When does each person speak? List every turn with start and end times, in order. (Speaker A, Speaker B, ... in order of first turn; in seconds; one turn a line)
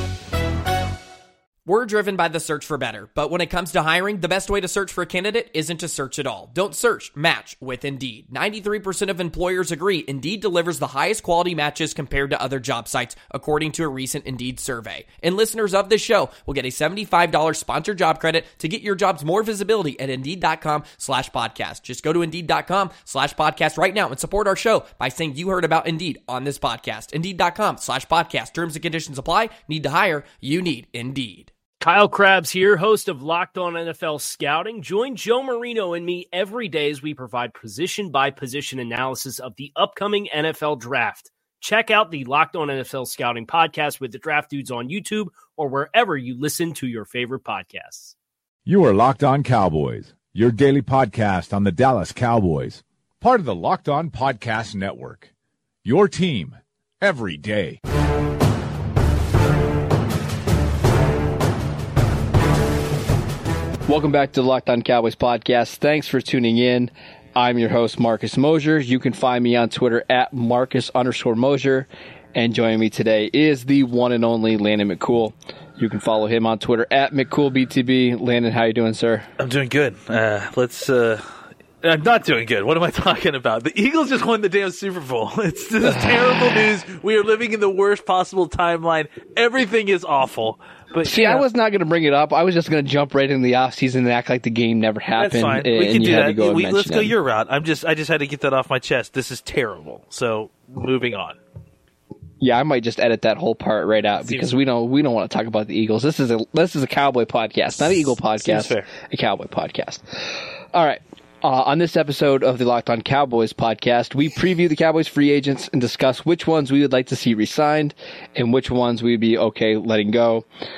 Speaker A: 1.7-31.5
Speaker B: 31.8-48.1
Speaker C: 48.7-55.3
Speaker C: 55.8-57.8
Speaker D: 63.9-79.3
Speaker E: 79.4-81.2
Speaker E: 81.8-91.5
Speaker D: 85.8-86.1
Speaker D: 91.0-97.1
Speaker E: 95.2-101.4
Speaker D: 102.4-120.5
Speaker E: 104.2-104.5
Speaker E: 108.4-108.9